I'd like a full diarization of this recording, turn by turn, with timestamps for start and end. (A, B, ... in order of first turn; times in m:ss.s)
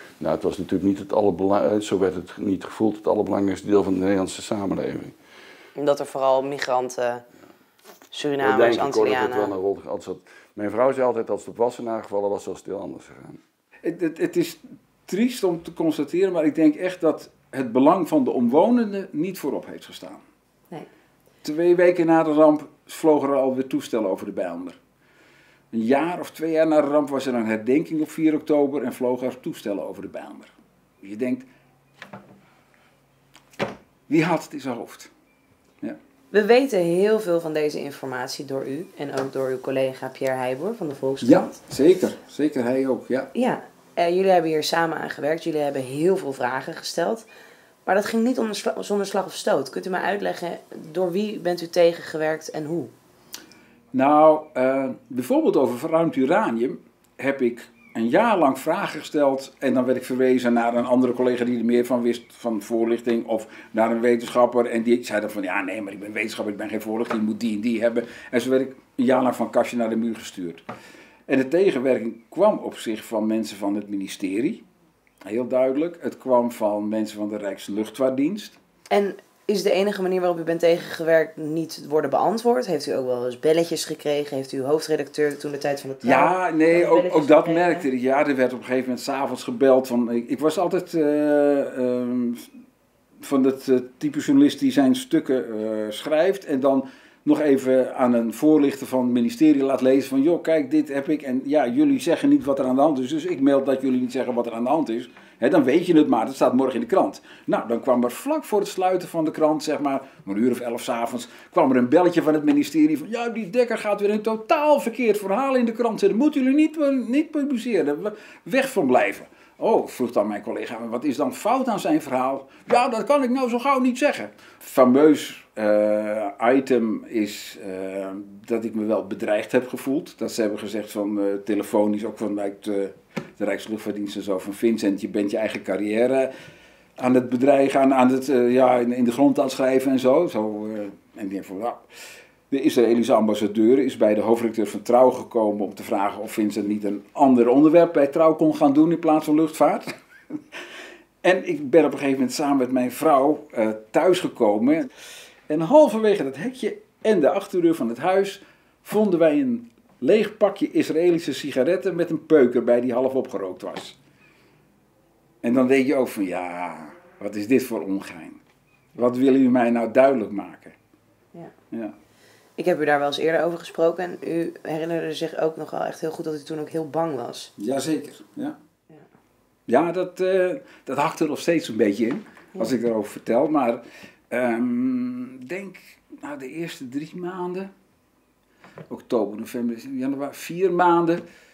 0:00.2-0:05.2 A
0:05.8-0:07.2 B
0:08.1-0:09.5 B
0:08.4-0:13.4 A
0:13.8-0:20.2 C
0:21.4-0:24.8 C
0:25.7-0:31.5 C
0:34.1-0:35.1 C
0:36.3-0:41.6 B
0:41.2-0:43.3 C
0:43.3-0:47.3 B
0:47.8-0:52.9 B
0:53.9-1:10.6 C
1:11.3-1:14.6 C
1:15.3-1:18.6 C
1:18.9-1:27.9 B
1:26.0-1:32.5 C
1:33.2-2:16.3 C
2:17.0-2:21.8 C
2:22.5-2:30.4 C
2:31.2-2:34.9 C
2:35.5-2:44.0 C
2:45.4-2:48.4 C
2:49.0-2:50.8 C
2:52.6-2:57.5 B
2:57.6-2:58.6 C
2:59.7-3:07.7 C
3:08.9-3:11.2 C